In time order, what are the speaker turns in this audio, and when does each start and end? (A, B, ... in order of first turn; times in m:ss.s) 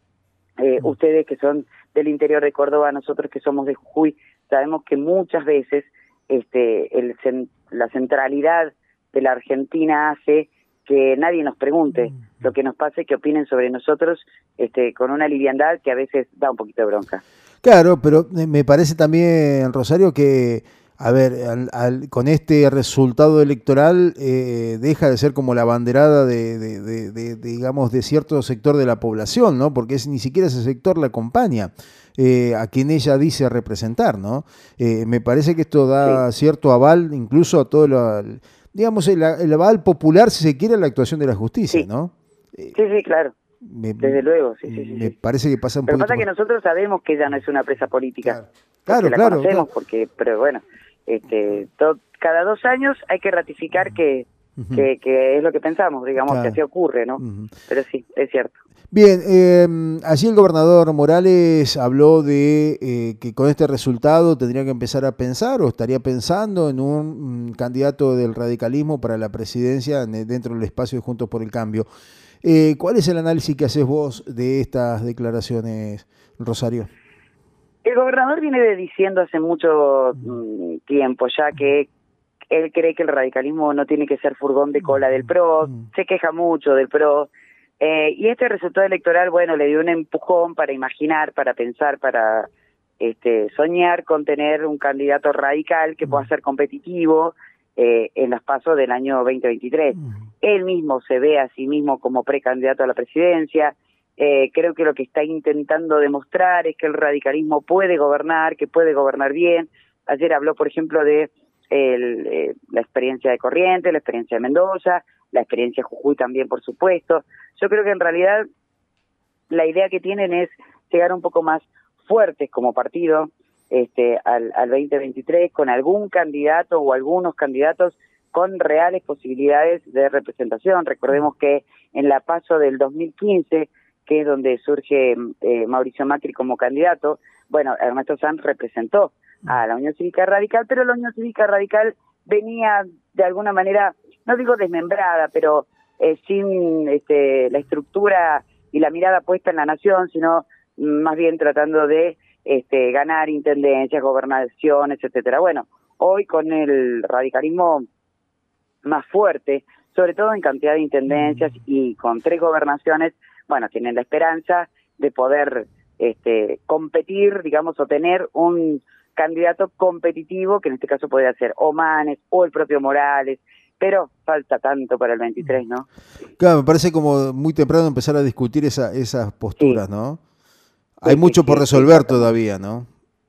0:00.6-0:17.2 A
0:17.6-0:42.8 B
0:42.7-0:43.3 A
0:43.6-0:46.2 B
0:44.0-0:45.1 A
0:45.9-0:48.4 A
0:48.2-0:49.7 B
0:48.9-0:58.6 A
0:54.6-0:54.8 B
0:56.2-0:56.6 B
0:57.2-0:57.5 B
0:58.9-1:11.9 B
1:12.4-1:16.9 B
1:17.8-1:21.9 A
1:22.5-1:27.3 A
1:27.8-1:32.5 A
1:33.0-1:58.4 A
1:59.5-2:37.8 A
2:38.8-2:55.9 A
2:56.4-3:00.2 B
3:01.0-3:02.9 B
3:01.1-3:02.3 A